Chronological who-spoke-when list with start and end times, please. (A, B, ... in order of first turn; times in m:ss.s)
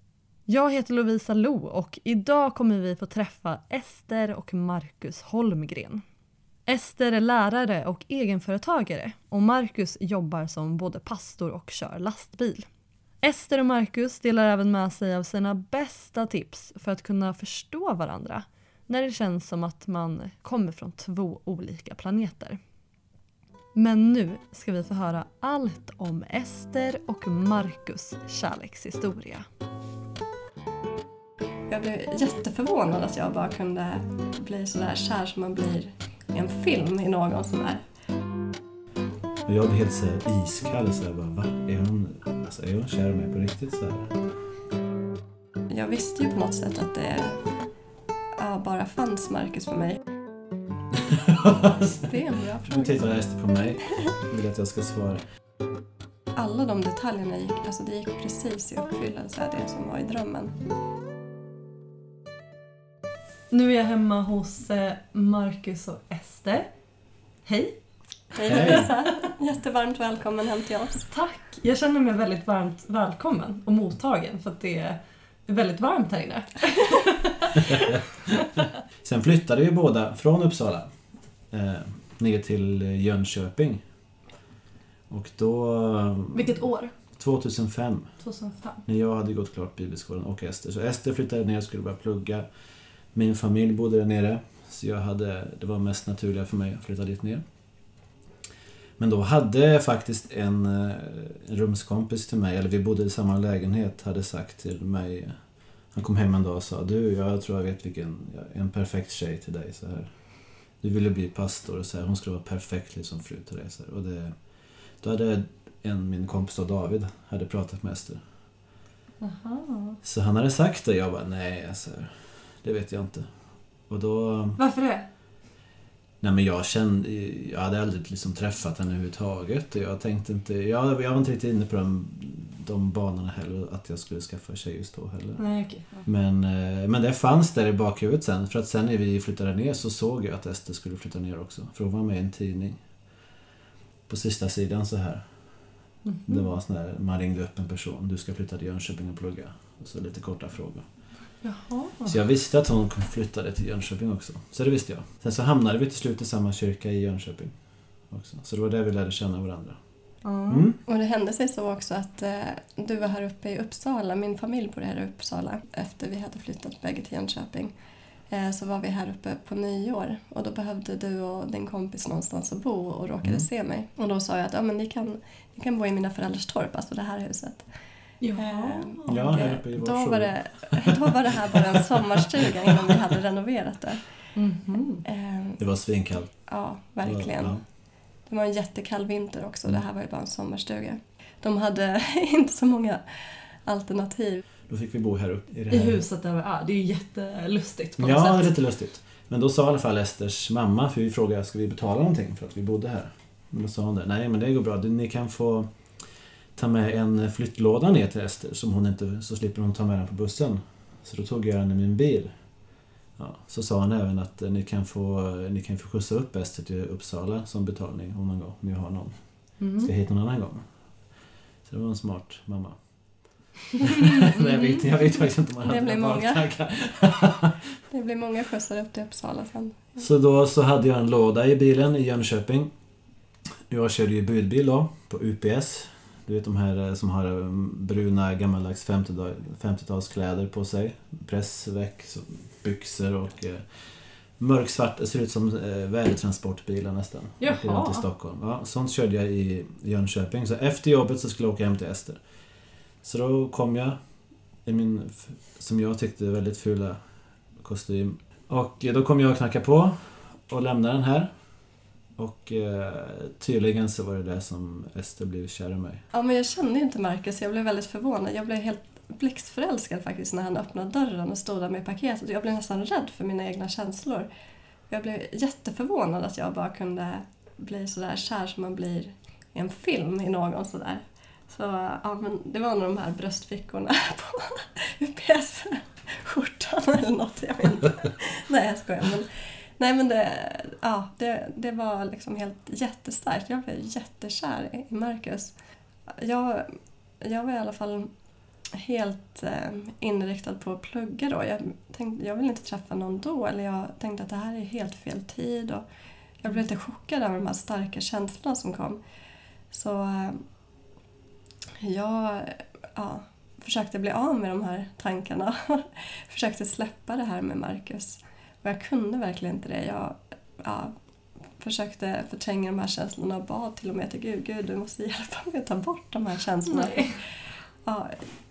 0:00.5-0:06.0 A
0:06.7-0:12.7 A
0:13.2-0:22.6 A
0:23.8-0:29.5 A
0:31.7-0:37.8 B
0:39.5-0:44.1 C
0:45.7-0:47.4 B
0:48.4-0:50.0 B
0:50.9-0:52.1 C
0:52.0-0:53.0 B
0:52.6-0:55.2 C
0:56.4-1:00.6 B
1:03.5-1:06.7 A
1:07.4-1:07.8 A
1:08.3-1:11.1 B
1:08.5-1:08.9 C
1:08.5-1:09.1 A
1:11.1-1:18.6 A
1:19.0-1:20.9 C
1:21.5-1:23.8 C
1:25.1-1:26.5 C
1:26.3-1:26.9 A
1:27.2-1:28.1 C
1:28.2-1:28.8 A
1:28.9-1:32.5 C
1:33.1-1:37.4 C
1:39.0-1:45.4 C
1:45.9-1:50.2 C
1:50.8-1:54.4 C
1:55.0-1:58.2 C
1:59.2-2:00.0 A
2:00.0-2:03.3 C
2:03.9-2:04.6 C
2:04.6-2:05.1 A
2:06.2-2:15.4 C
2:15.4-2:16.1 A
2:16.0-2:22.8 C
2:24.1-2:25.3 C
2:26.0-2:26.4 A
2:26.3-2:30.8 C
2:31.4-2:32.2 A
2:32.0-2:39.8 C
2:40.2-2:40.7 A
2:40.5-2:40.8 C
2:40.9-2:47.7 B
2:48.3-2:57.7 B
2:58.2-2:59.4 A
2:58.3-3:04.1 B
2:59.1-3:02.5 C
3:04.4-3:05.0 A
3:05.1-3:05.6 B
3:05.6-3:06.5 C
3:06.5-3:07.6 B
3:07.0-3:07.6 C
3:08.3-3:14.4 B
3:14.7-3:16.0 C
3:15.7-3:18.5 A
3:18.0-3:25.7 C
3:26.6-3:32.3 C
3:33.2-3:40.6 C
3:39.6-3:39.9 A
3:41.6-3:42.8 C
3:43.8-3:47.8 C
3:44.0-3:44.6 A
3:45.6-3:46.4 B
3:47.9-3:50.0 B
3:50.0-3:52.7 C
3:53.7-4:12.2 C
4:07.4-4:08.1 A
4:13.0-4:14.0 C
4:14.6-4:17.0 C
4:17.6-4:21.3 C
4:22.2-4:26.0 C
4:26.1-4:34.3 B
4:34.9-4:55.5 B
4:56.1-4:58.1 B
4:58.7-5:05.8 B
5:06.4-5:09.0 B
5:09.7-5:10.4 B
5:11.8-5:20.9 B
5:21.6-5:28.2 B
5:26.7-5:27.2 A